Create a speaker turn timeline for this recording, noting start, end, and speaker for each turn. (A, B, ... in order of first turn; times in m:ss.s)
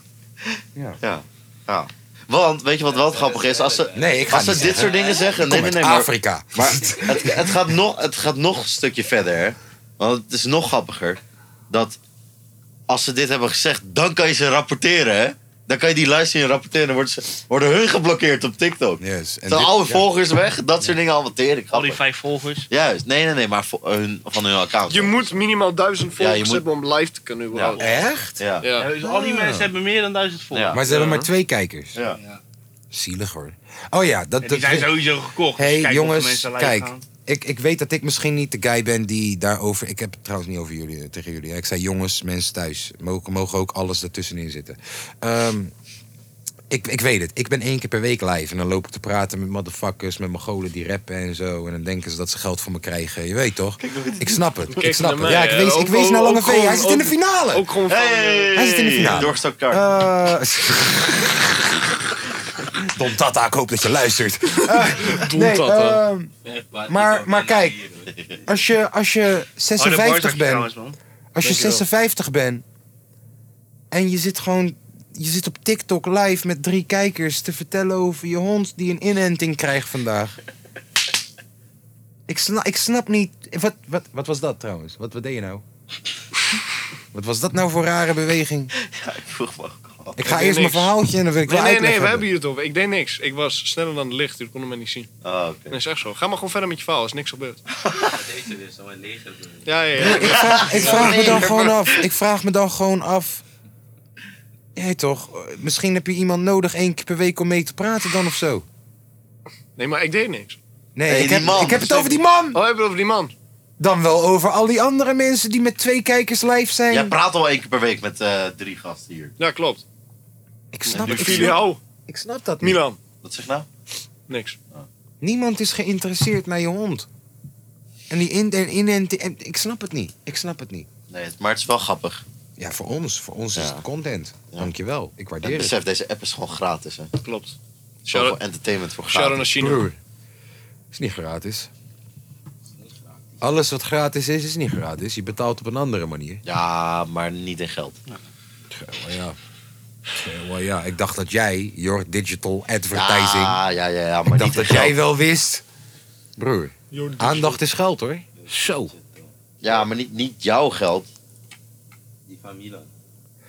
0:01.0-0:12.0 A
0:02.8-0:05.4 B
0:03.9-0:07.5 C
0:12.9-0:22.0 A
0:19.0-0:20.1 C
0:21.7-0:22.7 D
0:22.7-0:25.3 A
0:24.9-0:27.8 E
0:26.2-0:26.6 A
0:27.5-0:27.8 A
0:27.8-0:28.4 C
0:28.4-0:28.6 A
0:28.6-0:28.9 E
0:28.8-0:30.8 D
0:29.0-0:29.7 C
0:30.5-0:30.8 A
0:30.7-0:32.0 C
0:30.9-0:31.3 E
0:32.2-0:32.4 B
0:32.9-0:35.0 C
0:34.4-0:37.0 D
0:35.6-0:45.7 C
0:46.7-0:57.7 C
0:53.9-0:54.3 A
0:54.7-0:59.3 E
0:57.9-0:59.8 A
0:58.5-1:01.7 C
1:02.7-1:06.3 C
1:04.6-1:06.0 E
1:06.4-1:08.4 B
1:06.9-1:07.8 C
1:08.4-1:10.7 C
1:09.8-1:11.0 D
1:11.3-1:12.6 C
1:11.4-1:11.8 E
1:13.9-1:20.3 C
1:22.3-1:25.6 C
1:27.1-1:28.7 C
1:28.8-1:30.2 A
1:30.2-1:32.2 C
1:30.2-1:30.9 E
1:31.5-1:35.1 E
1:35.2-1:35.8 A
1:35.7-1:37.6 E
1:38.1-1:41.2 B
1:39.6-1:41.8 E
1:40.0-1:43.4 C
1:40.1-1:41.4 A
1:44.7-1:48.6 C
1:49.8-1:50.6 E
1:51.0-1:52.6 C
1:51.1-1:52.0 A
1:51.7-1:53.3 E
1:53.8-1:57.1 C
1:56.9-1:59.3 A
1:59.4-1:59.8 E
2:00.7-2:02.8 C
2:00.8-2:01.8 E
2:01.0-2:01.5 A
2:02.6-2:03.0 E
2:03.2-2:03.7 A
2:04.3-2:04.6 E
2:05.2-2:07.1 C
2:08.1-2:10.9 C
2:11.1-2:12.2 A
2:12.6-2:15.7 C
2:13.6-2:13.8 A
2:15.4-2:17.1 A
2:17.2-2:17.6 E
2:18.0-2:19.5 A
2:18.1-2:18.4 E
2:19.1-2:19.9 E
2:19.6-2:20.0 C
2:20.9-2:21.7 C
2:22.8-2:23.5 B
2:23.4-2:26.4 C
2:26.4-2:28.0 A
2:28.7-2:29.4 C
2:30.1-2:33.6 C
2:32.9-2:34.9 A
2:34.3-2:35.6 C
2:36.4-2:38.9 C
2:36.9-2:37.6 E
2:38.4-2:39.8 B
2:39.6-2:41.1 A
2:42.2-2:42.9 B